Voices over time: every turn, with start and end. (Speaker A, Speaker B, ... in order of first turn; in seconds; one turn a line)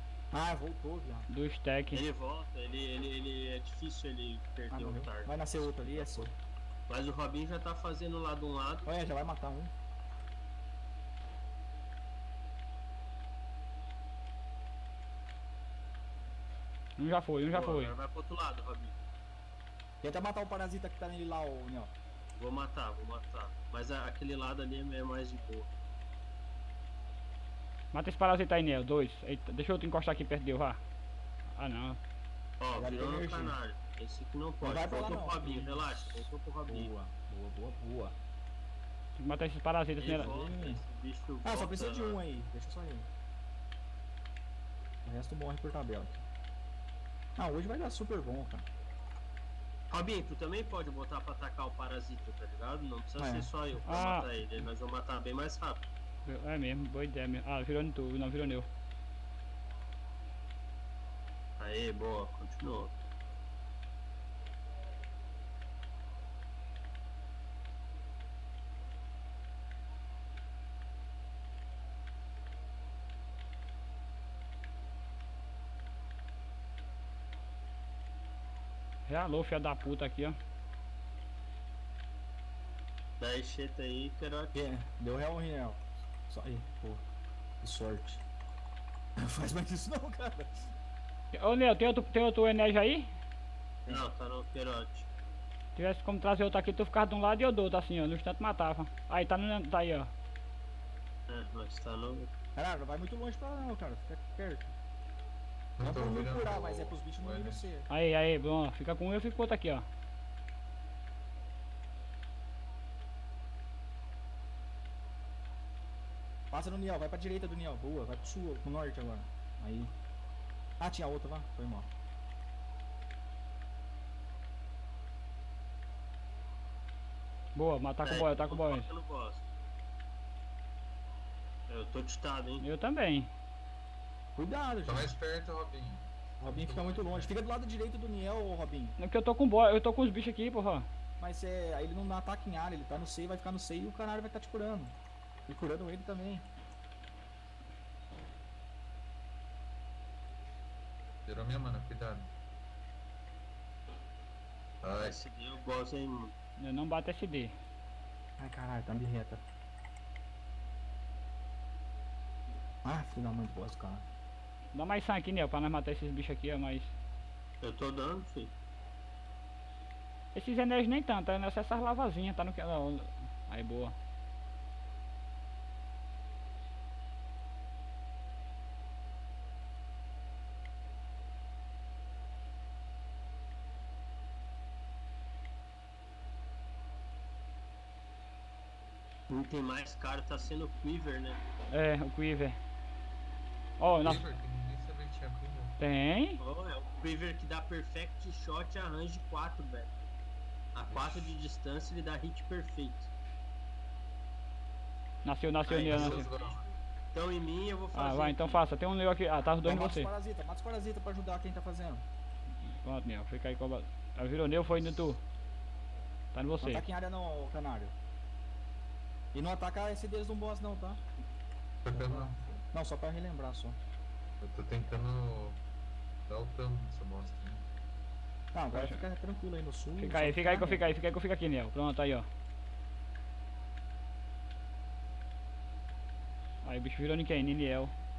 Speaker A: 0.3-1.3
Speaker B: 1.3-2.0
Speaker C: 1.9-6.3
Speaker A: 4.7-6.3
Speaker C: 6.9-8.9
Speaker A: 8.8-9.7
Speaker B: 17.0-17.9
Speaker C: 17.5-18.9
Speaker A: 20.0-21.9
Speaker C: 22.3-25.7
Speaker B: 27.9-30.8
Speaker B: 31.6-32.0
Speaker C: 32.6-36.9
Speaker A: 32.7-33.5
Speaker A: 34.6-38.1
Speaker B: 39.2-40.3
Speaker C: 40.0-42.2
Speaker A: 40.1-40.8
Speaker A: 41.4-43.1
Speaker A: 45.0-46.2
Speaker A: 47.4-48.6
Speaker C: 49.9-55.8
Speaker A: 53.2-53.5
Speaker B: 53.9-54.3
Speaker B: 56.2-58.7
Speaker C: 61.6-62.9
Speaker B: 79.1-80.3
Speaker C: 83.2-84.6
Speaker A: 84.5-87.0
Speaker A: 87.6-88.2
Speaker A: 89.2-90.7
Speaker B: 91.3-93.1
Speaker C: 93.9-95.1
Speaker B: 95.8-100.1
Speaker C: 101.3-102.3
Speaker A: 102.5-104.7
Speaker D: 105.8-107.6
Speaker A: 105.8-107.9
Speaker B: 107.9-109.8
Speaker A: 116.5-119.9
Speaker A: 120.8-121.9
Speaker B: 127.5-128.9
Speaker C: 128.0-129.4
Speaker C: 131.7-132.6
Speaker B: 132.6-133.3
Speaker A: 134.3-135.1
Speaker D: 134.8-137.3
Speaker A: 136.4-138.9
Speaker B: 139.0-140.8
Speaker A: 141.2-144.9
Speaker A: 145.5-146.4
Speaker D: 151.2-152.3
Speaker D: 154.8-155.2
Speaker C: 154.9-156.3
Speaker B: 156.6-157.5
Speaker A: 158.4-159.4
Speaker A: 162.8-164.0
Speaker B: 164.7-166.9
Speaker C: 167.6-168.5
Speaker B: 170.3-173.9
Speaker C: 189.3-191.4
Speaker B: 191.7-192.6
Speaker B: 193.8-194.2
Speaker D: 194.0-195.8
Speaker B: 195.8-196.4
Speaker C: 196.4-199.9
Speaker C: 200.7-203.1
Speaker D: 200.9-201.3
Speaker B: 205.2-206.3
Speaker C: 205.7-208.6
Speaker D: 205.7-206.7
Speaker B: 207.9-210.1
Speaker A: 209.6-212.0
Speaker B: 212.8-215.2
Speaker B: 216.3-216.8
Speaker A: 216.6-217.9
Speaker A: 219.3-221.0
Speaker D: 221.8-222.4
Speaker A: 221.9-223.8
Speaker D: 224.4-225.6
Speaker D: 226.3-227.7
Speaker A: 228.5-230.9
Speaker B: 228.7-229.0
Speaker B: 230.0-232.3
Speaker B: 236.6-237.9